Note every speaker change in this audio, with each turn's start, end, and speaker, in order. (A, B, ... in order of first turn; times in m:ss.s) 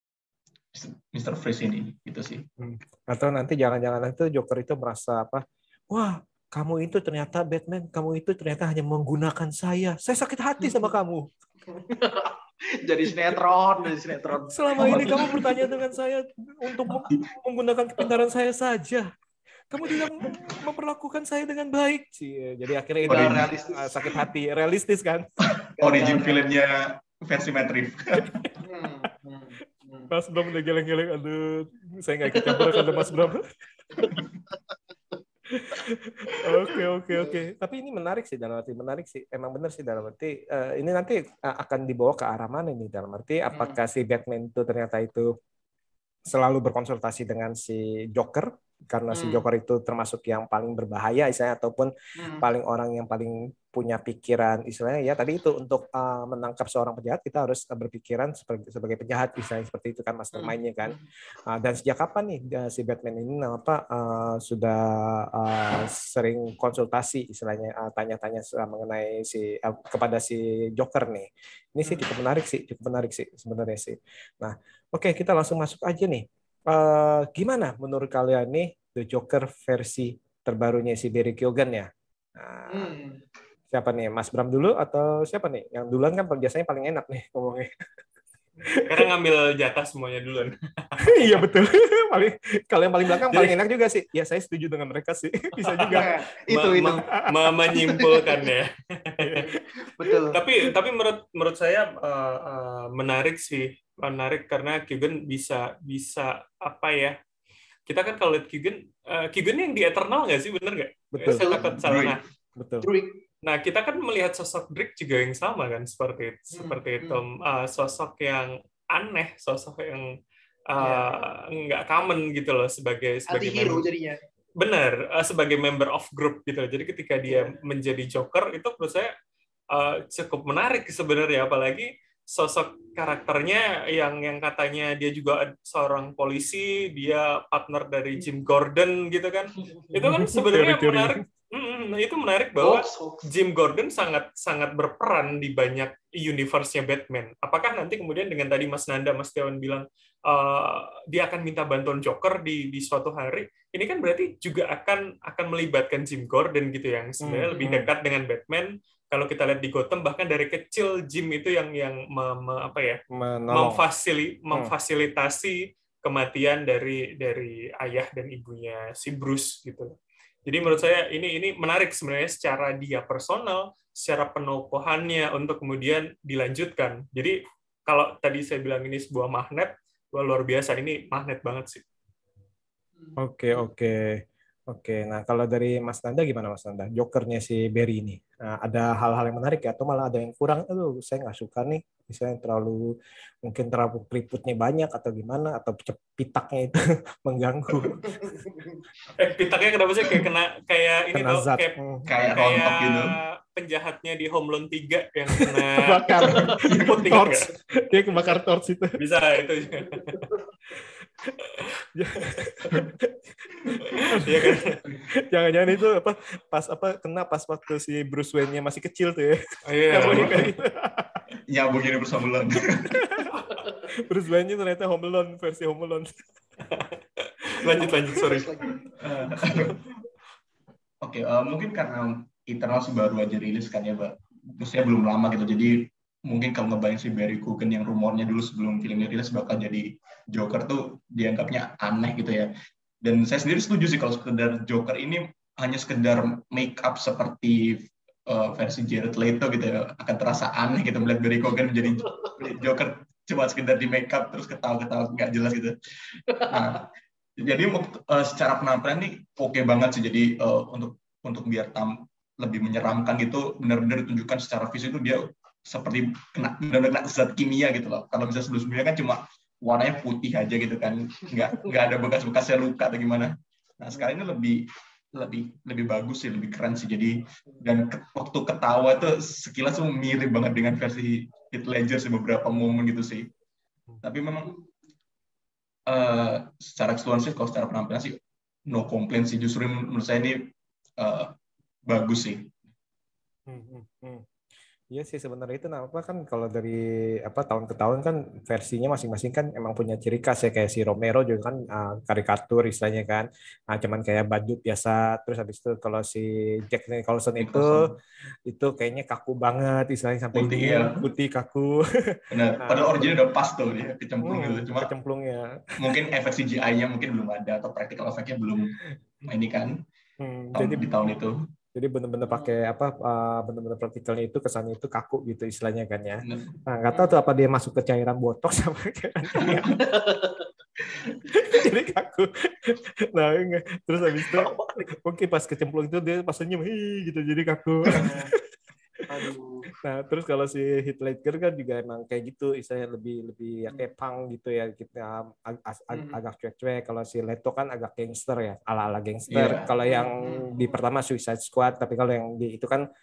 0:00.7-0:02.4 A
0:02.6-0:11.3 B
0:10.6-0:10.9 C
0:11.7-0:15.7 C
0:14.5-0:19.1 B
0:14.8-0:15.5 A
0:19.7-0:25.3 B
0:23.0-0:23.9 C
0:23.1-0:23.5 A
0:25.5-0:28.5 A
0:25.8-0:26.4 C
0:28.6-0:30.1 C
0:30.1-0:33.4 B
0:32.3-0:33.3 C
0:35.5-0:45.3 B
0:36.7-0:37.3 C
0:46.3-1:22.9 B
0:49.1-0:49.4 C
0:52.2-0:52.4 C
1:00.3-1:01.0 C
1:22.7-1:23.2 C
1:23.7-1:27.7 B
1:28.7-1:29.1 B
1:28.9-1:31.4 D
1:31.1-1:36.1 B
1:33.3-1:33.6 D
1:35.9-1:37.1 C
1:36.5-1:39.4 D
1:37.3-1:38.1 B
1:39.4-1:40.4 C
1:40.3-1:47.2 D
1:47.9-1:52.2 D
1:51.1-1:51.4 B
1:51.4-1:52.2 A
1:52.6-1:52.9 B
1:52.8-1:53.2 C
1:53.4-2:00.1 D
1:56.6-1:57.2 C
2:00.7-2:03.9 D
2:00.8-2:01.2 C
2:03.3-2:04.2 C
2:04.6-2:09.1 D
2:07.2-2:07.5 C
2:09.7-2:43.0 D
2:19.9-2:21.2 B
2:22.6-2:23.2 C
2:37.2-2:37.9 B
2:43.1-2:43.8 B
2:43.5-3:01.8 D
3:03.2-3:12.9 B
3:13.4-3:18.3 B
3:19.2-3:27.5 D
3:21.1-3:22.1 B
3:22.1-3:23.1 A
3:25.4-3:29.0 B
3:26.5-3:27.2 A
3:29.0-3:30.2 D
3:30.1-3:30.4 C
3:31.9-3:41.2 B
3:34.0-3:34.8 D
3:39.7-3:40.5 D
3:41.5-3:43.0 A
3:43.0-3:43.3 B
3:43.9-3:46.1 B
3:46.7-3:48.5 D
3:47.6-3:48.8 C
3:48.9-3:49.8 A
3:51.0-4:15.7 A
4:16.4-4:43.3 A
4:44.0-4:44.6 A
4:45.9-4:51.3 A
4:51.9-4:52.5 A
4:53.5-4:54.3 B
4:54.9-5:07.9 B
5:07.4-5:07.9 A
5:08.4-5:13.2 B
5:10.3-5:11.0 A
5:12.3-5:14.9 A
5:14.2-5:15.6 B
5:15.8-5:19.8 A
5:20.2-5:20.9 B
5:20.5-5:21.4 A
5:21.7-5:29.7 B
5:22.3-5:22.5 C
5:26.2-5:26.6 A
5:26.9-5:27.2 C
5:29.4-5:29.7 A
5:29.8-5:30.5 C
5:31.3-5:38.4 B
5:34.3-5:34.9 C
5:38.0-5:38.3 C
5:39.1-5:39.6 C
5:39.8-5:52.8 B
5:49.3-5:49.7 A
5:49.8-5:50.8 C